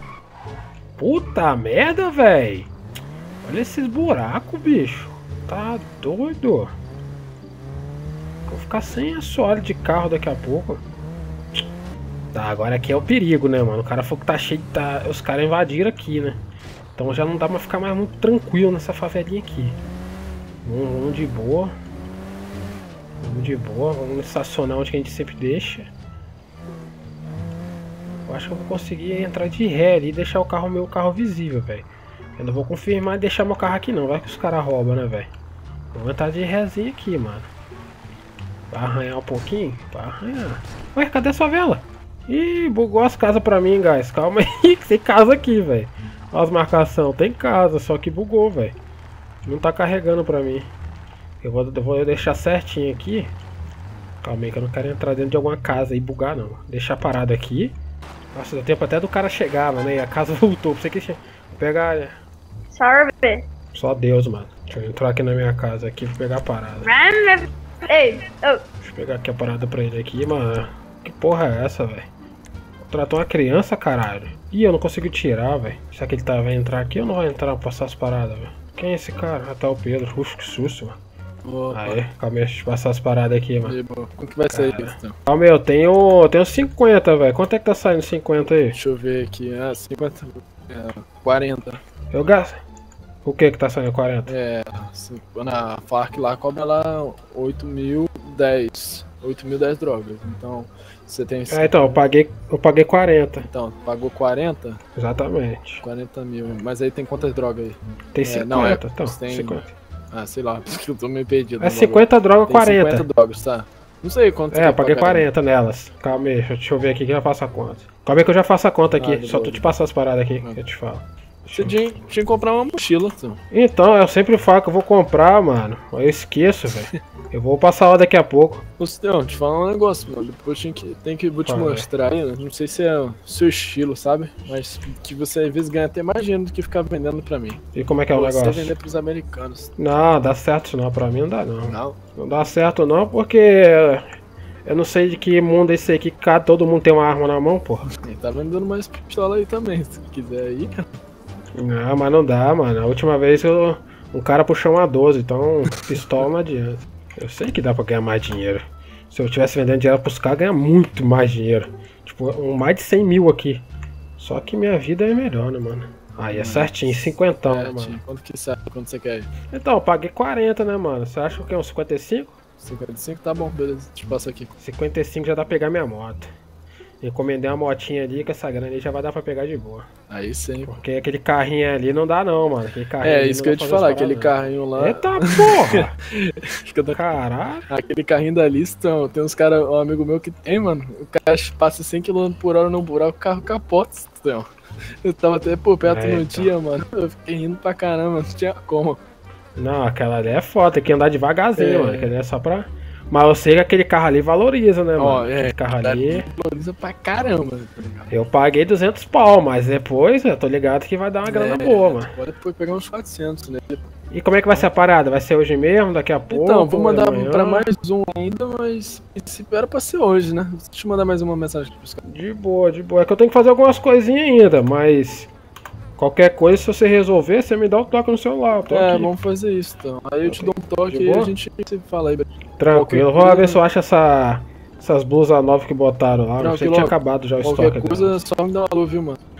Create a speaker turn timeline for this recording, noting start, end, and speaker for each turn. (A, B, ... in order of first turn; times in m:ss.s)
0:01.0-0:02.7 A
0:03.4-0:06.7 A
0:08.5-0:10.8 A
0:12.3-0:16.4 A
0:17.0-0:19.8 A
0:20.6-0:21.7 A
0:23.2-0:25.9 A
0:28.3-0:31.8 A
0:32.4-0:35.3 A
0:35.9-0:37.5 A
0:38.7-0:48.8 A
0:49.4-0:50.7 A
0:51.4-0:53.3 A
0:54.2-0:57.7 A
0:58.3-1:02.1 A
1:02.7-1:03.4 B
1:03.7-1:06.9 A
1:06.8-1:08.6 B
1:08.8-1:12.1 A
1:12.8-1:21.0 A
1:21.4-1:22.0 C
1:21.7-1:23.8 A
1:23.6-1:25.2 C
1:24.5-1:28.8 A
1:28.7-1:31.8 C
1:32.1-1:32.6 A
1:33.2-1:34.3 A
1:34.3-1:42.0 C
1:41.5-1:43.5 A
1:43.5-1:44.8 C
1:45.0-1:45.8 A
1:45.8-1:55.2 C
1:48.1-1:49.7 A
1:51.6-1:53.0 A
1:54.5-2:01.8 A
1:59.0-1:59.7 C
2:01.5-2:03.4 C
2:03.5-2:08.6 A
2:08.8-2:17.6 C
2:11.4-2:11.9 A
2:17.7-2:18.8 A
2:18.1-2:19.7 C
2:19.8-2:24.0 A
2:21.7-2:22.0 C
2:24.6-2:27.8 A
2:27.9-2:30.9 C
2:31.5-2:43.6 A
2:44.2-2:48.0 A
2:46.3-2:46.8 C
2:47.4-2:49.3 C
2:49.5-2:52.4 A
2:52.6-2:54.5 C
2:54.6-2:56.3 A
2:57.0-2:59.9 A
3:00.1-3:00.7 C
3:00.7-3:05.9 A
3:03.0-3:07.0 C
3:06.9-3:07.7 A
3:07.7-3:14.5 C
3:15.0-3:19.0 C
3:15.8-3:16.5 A
3:19.6-3:26.3 A
3:21.6-3:22.1 C
3:25.0-3:28.1 C
3:28.1-3:32.1 A
3:31.2-3:33.8 C
3:34.1-3:37.7 A
3:36.3-3:42.0 C
3:42.0-3:45.3 A
3:46.0-3:49.1 A
3:48.7-3:53.6 C
3:50.2-3:51.3 A
3:52.6-3:58.2 A
3:56.4-3:59.2 C